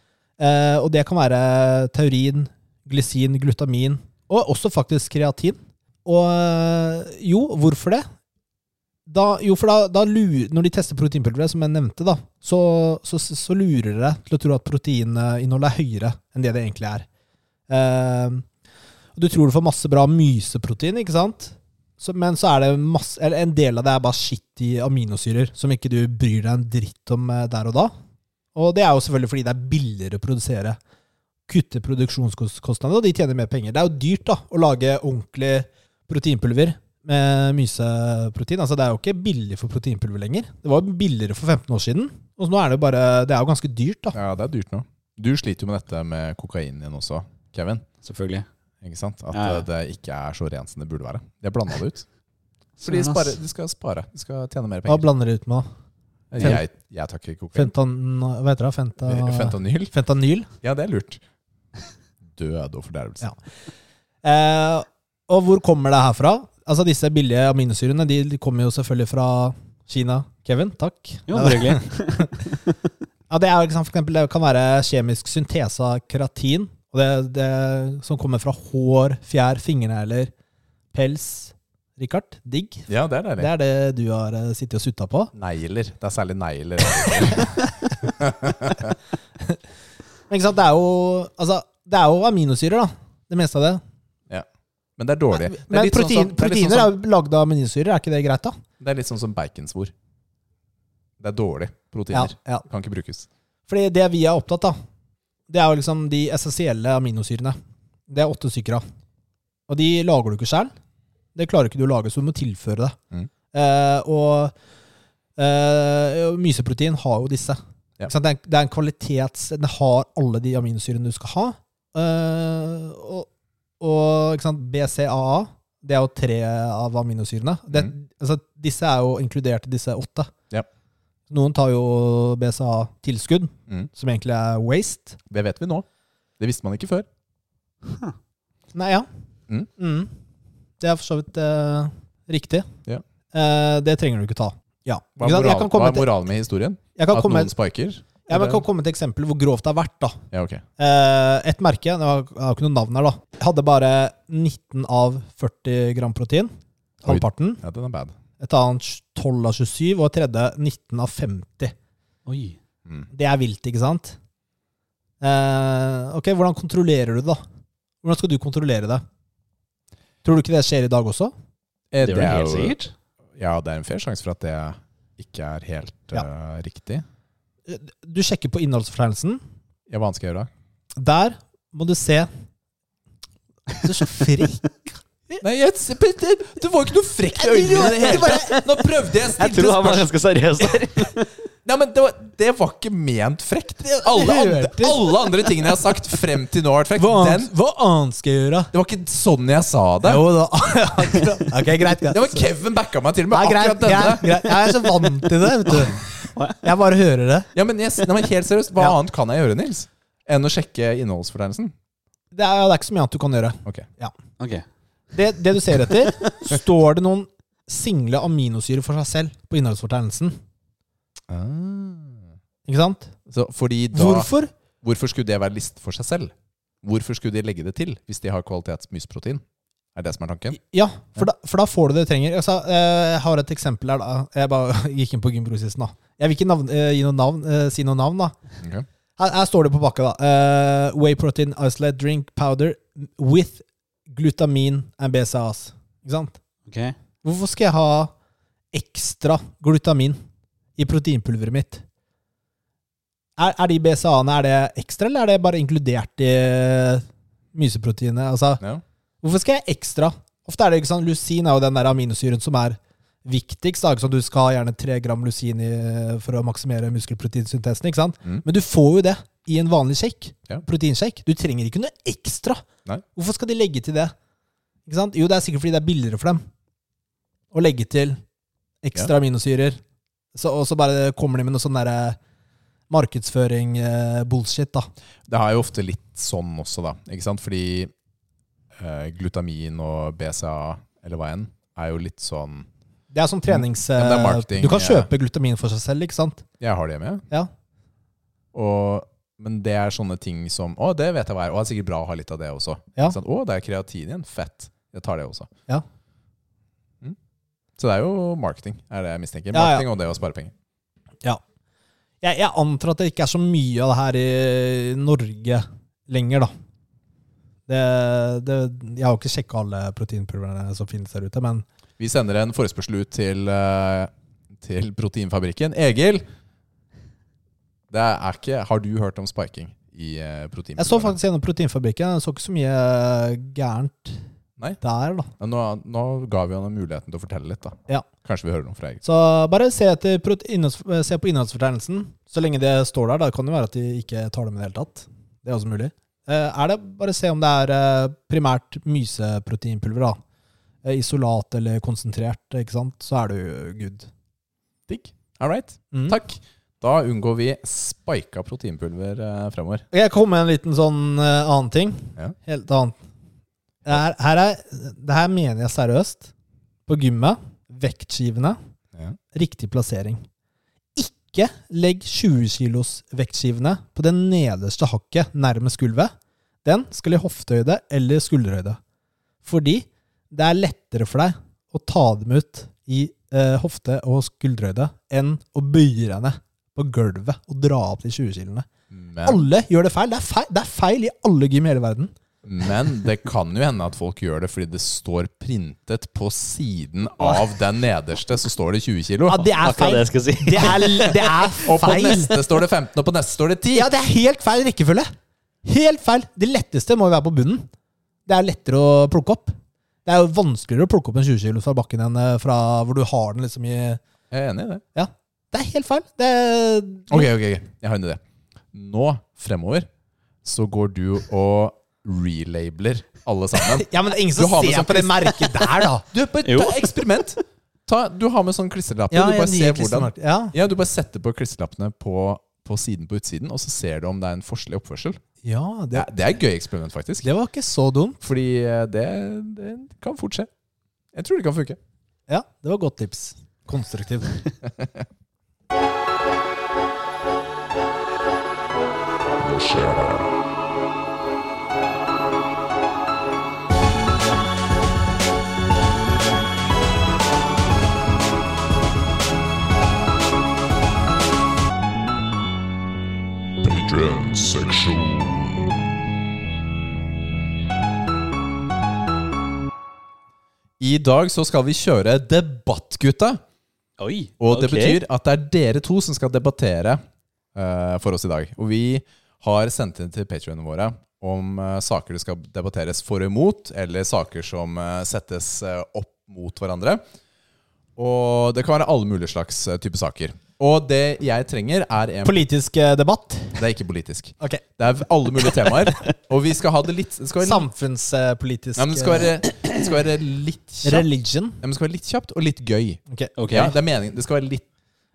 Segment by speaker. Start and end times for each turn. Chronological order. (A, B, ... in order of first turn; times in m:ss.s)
0:00.4-0:08.0 A
0:09.1-0:17.1 A
0:17.7-0:18.4 A
0:19.2-0:27.9 A
0:28.5-0:30.8 A
0:31.5-0:44.2 A
0:44.1-0:47.8 B
0:48.0-0:48.4 C
0:48.8-0:52.0 B
0:49.3-0:49.6 C
0:52.8-0:53.4 C
0:52.8-0:55.1 B
0:54.9-0:55.7 A
0:56.3-0:57.7 B
0:56.4-0:56.6 A
0:57.5-1:00.5 A
0:59.0-0:59.9 B
1:00.6-1:01.2 B
1:02.3-1:03.3 B
1:04.2-1:12.3 A
1:11.3-1:12.5 C
1:13.3-1:20.3 A
1:20.9-1:22.9 A
1:22.9-1:23.5 B
1:23.4-1:25.3 A
1:25.3-1:29.0 B
1:30.3-1:33.8 A
1:35.0-1:36.9 B
1:35.3-1:38.6 A
1:38.8-1:39.9 B
1:41.2-1:43.3 B
1:42.1-1:42.6 A
1:43.7-1:44.8 A
1:45.5-1:47.6 A
1:48.1-1:48.8 A
1:49.7-1:50.7 A
1:51.3-1:53.0 A
1:53.5-1:54.5 A
1:55.4-2:03.3 A
2:03.8-2:10.3 A
2:11.3-2:15.2 A
2:15.3-2:15.8 B
2:16.4-2:17.1 B
2:18.7-2:19.1 A
2:19.8-2:20.1 A
2:20.8-2:22.7 A
2:23.3-2:26.1 A
2:25.2-2:28.6 B
2:27.0-2:27.5 A
2:28.3-2:30.2 A
2:30.3-2:30.6 B
2:30.8-2:36.5 A
2:37.0-2:37.6 A
2:37.0-2:38.1 B
2:38.4-2:41.7 A
2:42.2-2:42.6 C
2:43.1-2:44.2 A
2:45.2-2:47.4 A
2:48.0-2:49.0 A
2:50.2-2:51.3 A
2:51.9-2:52.8 B
2:52.0-2:52.9 C
2:53.4-2:57.0 B
2:57.7-2:59.4 A
2:59.9-3:00.5 B
3:01.0-3:02.3 A
3:03.7-3:05.4 A
3:05.4-3:10.1 B
3:07.4-3:08.6 A
3:07.9-3:08.7 C
3:09.4-3:11.3 C
3:11.6-3:17.5 B
3:13.8-3:15.0 A
3:17.0-3:18.7 A
3:18.7-3:20.2 B
3:20.0-3:22.4 A
3:22.1-3:24.5 B
3:23.3-3:26.0 A
3:26.6-3:27.5 A
3:27.5-3:31.7 B
3:32.3-3:34.1 A
3:34.4-3:34.6 C
3:35.1-3:40.4 A
3:41.3-3:42.3 B
3:42.6-3:43.1 A
3:43.3-3:44.3 B
3:43.9-3:44.5 A
3:44.8-3:49.4 B
3:49.9-3:50.6 B
3:50.5-3:58.3 A
3:58.6-3:58.8 B
3:59.2-4:06.4 A
4:06.7-4:06.9 C
4:07.2-4:08.1 A
4:08.7-4:10.2 A
4:10.8-4:11.8 A
4:13.4-4:18.6 A
4:19.2-4:32.6 A
4:33.1-4:34.1 A
4:34.8-4:36.4 A
4:37.5-4:38.2 A
4:38.8-4:39.8 A
4:40.3-4:42.2 A
4:42.9-4:44.9 A
4:45.3-4:47.9 B
4:48.8-4:52.7 B
4:53.1-4:56.4 A
4:53.5-4:55.1 B
4:56.6-4:57.2 B
4:58.5-5:05.5 B
5:07.8-5:10.5 B
5:09.5-5:09.8 A
5:12.2-5:16.5 A
5:17.7-5:21.6 A
5:22.0-5:26.2 B
5:27.9-5:31.2 B
5:30.8-5:34.2 A
5:34.8-5:35.3 A
5:35.4-5:39.0 B
5:39.0-5:50.2 A
5:50.8-5:54.1 A
5:54.9-5:59.8 B
5:55.9-5:56.2 A
5:59.9-6:03.0 A
6:03.8-6:06.3 A
6:06.9-6:08.6 A
6:09.3-6:10.2 A
6:10.9-6:16.1 A
6:16.6-6:18.8 A
6:19.4-6:28.7 A
6:28.9-6:29.4 B
6:29.2-6:32.1 A
6:32.4-6:39.5 B
6:39.3-6:42.3 A
6:39.6-6:41.5 C
6:41.6-6:43.9 B
6:43.7-6:45.1 A
6:45.6-6:47.7 A
6:48.3-6:54.0 A
6:54.3-6:54.8 B
6:54.9-6:57.3 A
6:57.1-6:58.2 B
6:58.7-6:59.9 B
7:00.4-7:05.5 B
7:03.7-7:06.0 A
7:06.0-7:15.2 B
7:06.4-7:06.9 C
7:09.1-7:10.5 A
7:15.4-7:16.1 A
7:15.9-7:17.2 B
7:17.2-7:18.2 A
7:18.2-7:20.5 B
7:21.1-7:21.8 B
7:22.3-7:24.4 A
7:24.6-7:25.0 B
7:29.4-7:30.3 D
7:43.6-7:45.8 D
7:50.8-7:53.4 B
7:54.0-7:55.0 C
7:54.4-7:57.0 B
7:57.5-8:07.0 B
8:08.0-8:12.4 B
8:12.2-8:13.6 A
8:13.6-8:17.7 B
8:17.4-8:19.3 A
8:18.8-8:21.1 B
8:20.8-8:21.6 A
8:21.6-8:24.6 B
8:23.4-8:23.7 C